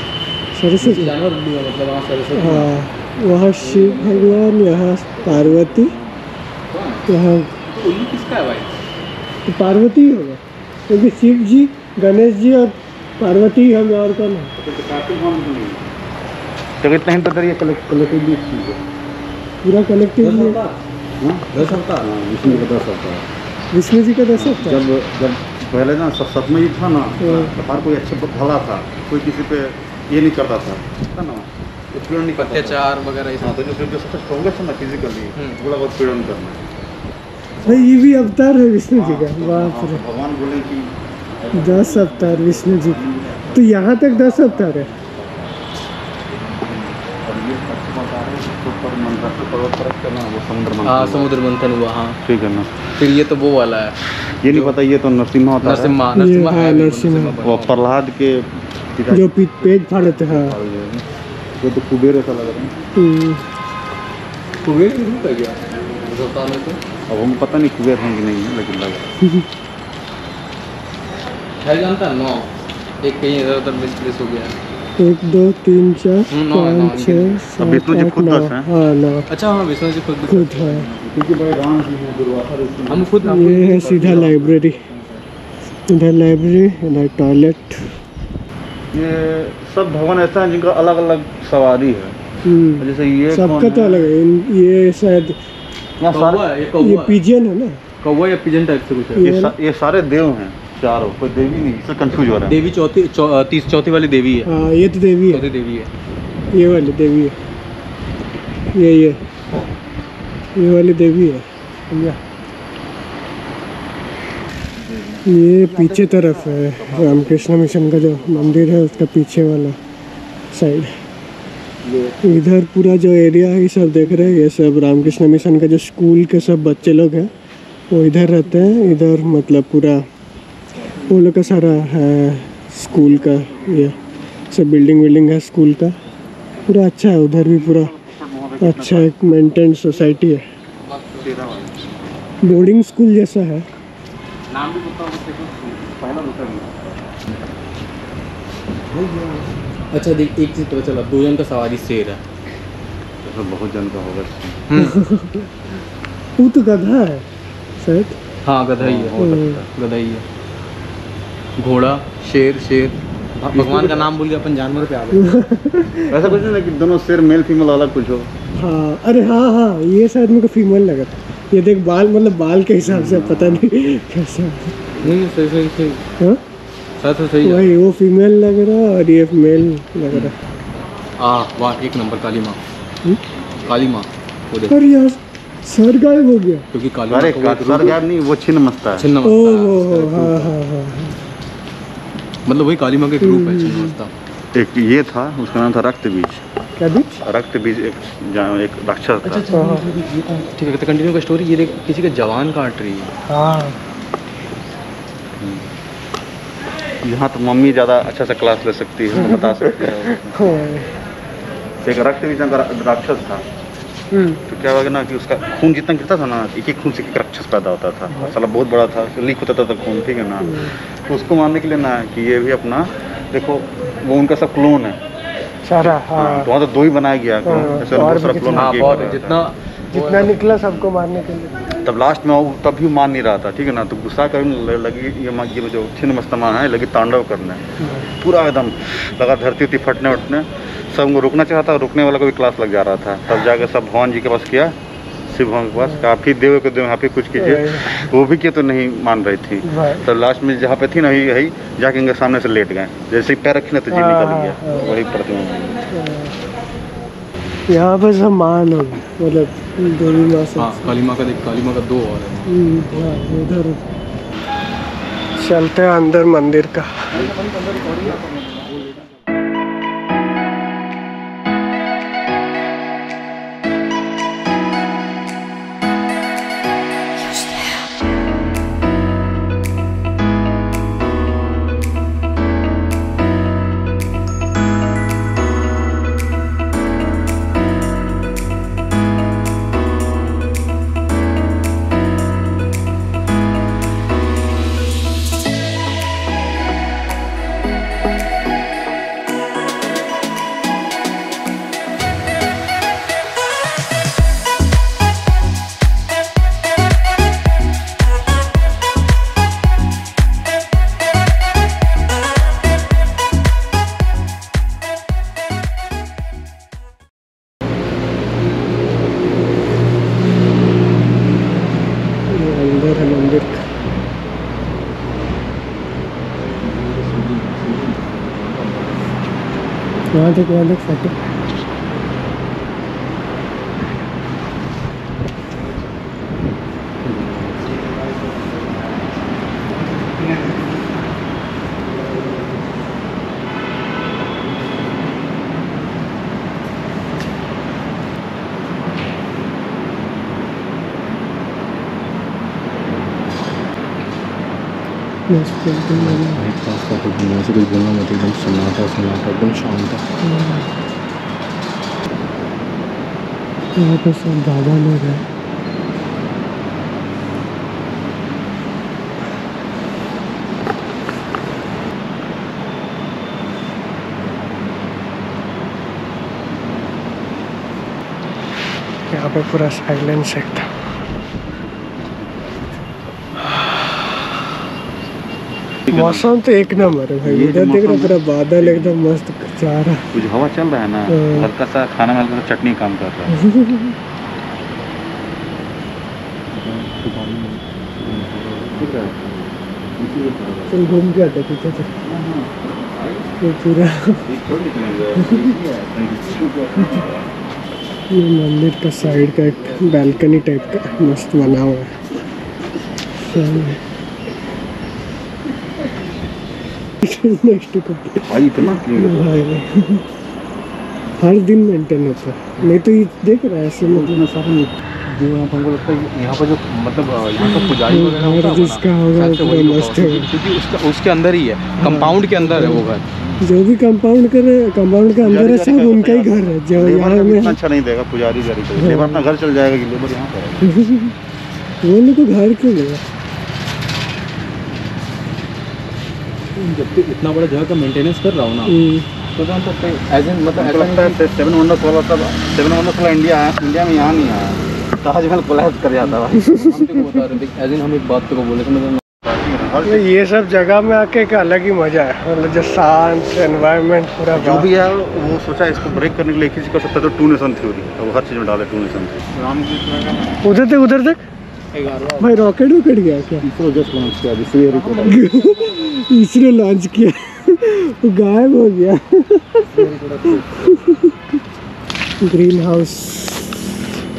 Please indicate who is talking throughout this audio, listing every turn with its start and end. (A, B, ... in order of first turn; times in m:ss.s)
0:00.6-0:01.2 A
0:00.8-0:02.7 B
0:02.3-0:06.0 A
0:03.6-0:04.6 B
0:05.3-0:06.2 C
0:06.7-0:07.1 B
0:07.1-0:07.6 A
0:07.7-0:08.8 B
0:09.5-0:14.5 A
0:14.6-0:15.9 C
0:16.8-0:18.8 C
0:19.6-0:20.6 A
0:20.2-0:20.8 B
0:21.2-0:21.5 C
0:21.5-0:22.1 B
0:22.0-0:23.3 C
0:23.7-0:24.8 A
0:24.3-0:32.8 C
0:27.2-0:27.6 A
0:32.3-0:33.6 B
0:33.4-0:36.7 C
0:35.4-0:35.6 B
0:37.6-0:38.0 C
0:37.6-0:40.0 A
0:38.9-0:45.6 C
0:41.6-0:44.9 A
0:46.3-0:51.3 C
0:50.8-0:52.2 B
0:52.2-0:52.7 C
0:53.0-0:54.8 B
0:54.4-0:56.0 C
0:55.6-0:57.9 B
0:56.1-0:57.4 A
0:57.4-1:01.0 C
0:59.1-1:00.6 A
1:01.6-1:02.7 C
1:03.0-1:03.4 A
1:04.6-1:06.8 B
1:07.1-1:09.1 C
1:11.6-1:12.5 B
1:13.0-1:14.6 B
1:15.0-1:19.3 A
1:16.3-1:17.4 B
1:17.6-1:18.7 C
1:19.3-1:20.9 B
1:20.2-1:20.9 A
1:20.9-1:23.1 C
1:22.9-1:25.0 B
1:23.2-1:24.9 A
1:23.8-1:24.4 C
1:25.9-1:27.9 A
1:28.9-1:32.2 C
1:32.4-1:35.4 A
1:32.8-1:34.1 C
1:36.0-1:36.5 C
1:36.1-1:37.2 B
1:36.8-1:37.8 A
1:38.0-1:39.3 B
1:39.2-1:39.6 A
1:39.2-1:42.6 C
1:42.5-1:44.5 B
1:44.5-1:45.5 A
1:45.3-1:45.9 B
1:46.5-1:47.4 A
1:48.8-1:49.2 A
1:50.6-1:52.2 A
1:54.8-1:59.1 C
1:55.3-1:59.8 A
2:00.5-2:00.9 A
2:01.8-2:02.2 C
2:02.2-2:07.3 A
2:07.9-2:10.0 A
2:11.0-2:14.0 A
2:13.3-2:13.6 C
2:14.5-2:15.9 A
2:16.7-2:17.9 A
2:17.4-2:19.4 C
2:18.6-2:20.4 A
2:20.9-2:21.4 B
2:21.2-2:22.0 C
2:22.4-2:23.7 A
2:24.5-2:25.2 B
2:24.6-2:26.9 C
2:28.9-2:29.4 C
2:29.9-2:32.2 B
2:33.2-2:34.7 C
2:34.7-2:35.0 B
2:34.8-2:35.5 A
2:36.4-2:37.2 A
2:37.8-2:38.2 A
2:38.4-2:39.2 B
2:38.8-2:39.7 C
2:39.2-2:39.7 A
2:39.7-2:40.2 B
2:41.6-2:43.0 B
2:43.4-2:44.1 C
2:43.5-2:45.4 B
2:45.1-2:46.4 A
2:46.1-2:48.3 C
2:48.6-2:54.8 A
2:52.8-2:53.7 C
2:55.0-2:56.0 B
2:57.0-2:57.7 B
2:57.4-3:00.3 A
3:01.2-3:02.6 B
3:03.6-3:04.8 B
3:04.7-3:06.6 A
3:06.7-3:08.0 B
3:07.1-3:09.1 C
3:09.0-3:10.6 B
3:09.2-3:11.2 A
3:12.5-3:14.1 B
3:13.2-3:14.0 A
3:14.5-3:16.4 C
3:16.8-3:17.2 A
3:17.2-3:19.5 C
3:19.2-3:23.1 B
3:19.5-3:19.9 A
3:23.3-3:23.8 A
3:25.4-3:25.7 C
3:27.0-3:30.6 C
3:29.1-3:30.9 A
3:31.8-3:33.4 C
3:34.1-3:34.4 A
3:34.5-3:45.0 C
3:38.1-3:38.4 A
3:40.4-3:40.8 A
3:45.7-3:46.5 A
3:45.8-3:49.4 C
3:47.4-3:49.2 A
3:48.5-3:50.4 B
3:49.9-3:51.5 A
3:51.8-3:57.6 C
3:57.8-3:58.1 A
3:58.2-4:04.8 C
4:05.3-4:15.8 C
4:07.4-4:08.1 A
4:09.6-4:10.1 A
4:13.9-4:14.9 A
4:15.9-4:16.4 A
4:17.7-4:21.0 A
4:20.6-4:22.5 B
4:22.5-4:23.8 A
4:25.4-4:27.1 A
4:27.1-4:28.9 C
4:27.2-4:28.9 B
5:22.3-5:23.6 A
5:26.6-5:28.9 B
5:30.2-5:31.1 A
5:37.2-5:37.7 C
5:55.3-5:56.4 A
5:56.0-6:00.0 B
6:00.2-6:00.7 A
6:03.8-6:05.2 A
6:19.1-6:20.7 A
6:21.4-6:22.7 C
6:23.5-6:23.9 A
6:25.9-6:26.2 C
6:25.9-6:30.1 A
6:27.2-6:29.0 C
6:30.1-6:33.4 C
6:31.1-6:31.5 A
6:33.3-6:34.0 A
6:36.5-6:38.9 B
6:38.7-6:39.2 C
6:40.0-6:40.9 C
6:40.7-6:41.9 A
6:42.0-6:43.4 C
6:43.4-6:44.3 A
6:44.2-6:47.3 C
6:45.2-6:45.6 A
6:48.1-6:51.9 A
6:49.0-6:51.6 C
6:53.3-6:53.8 A
6:57.0-6:58.3 A
6:58.3-6:59.4 C
6:58.8-7:00.0 A
7:01.2-7:04.2 A
7:03.8-7:04.8 C
7:05.1-7:13.0 B
7:07.4-7:10.3 A
7:11.8-7:12.8 A
7:13.4-7:17.6 A
7:15.2-7:20.7 C
7:18.8-7:19.3 A
7:20.6-7:21.1 A
7:21.8-7:23.0 A
7:26.6-7:28.8 B
7:28.7-7:29.1 A
7:29.3-7:31.2 B
7:30.5-7:36.6 C
7:36.0-7:39.0 B
7:36.4-7:37.2 A
7:39.2-7:40.0 C
7:39.8-7:44.7 A
7:44.3-7:49.5 C
7:49.4-7:50.2 B
7:50.4-7:51.2 A
7:51.7-7:52.5 B
7:52.2-7:53.5 A
7:53.4-7:55.3 C
7:54.7-7:55.8 B
7:55.0-7:59.9 A
7:59.8-8:00.6 B
8:00.5-8:01.1 A
8:02.2-8:03.8 A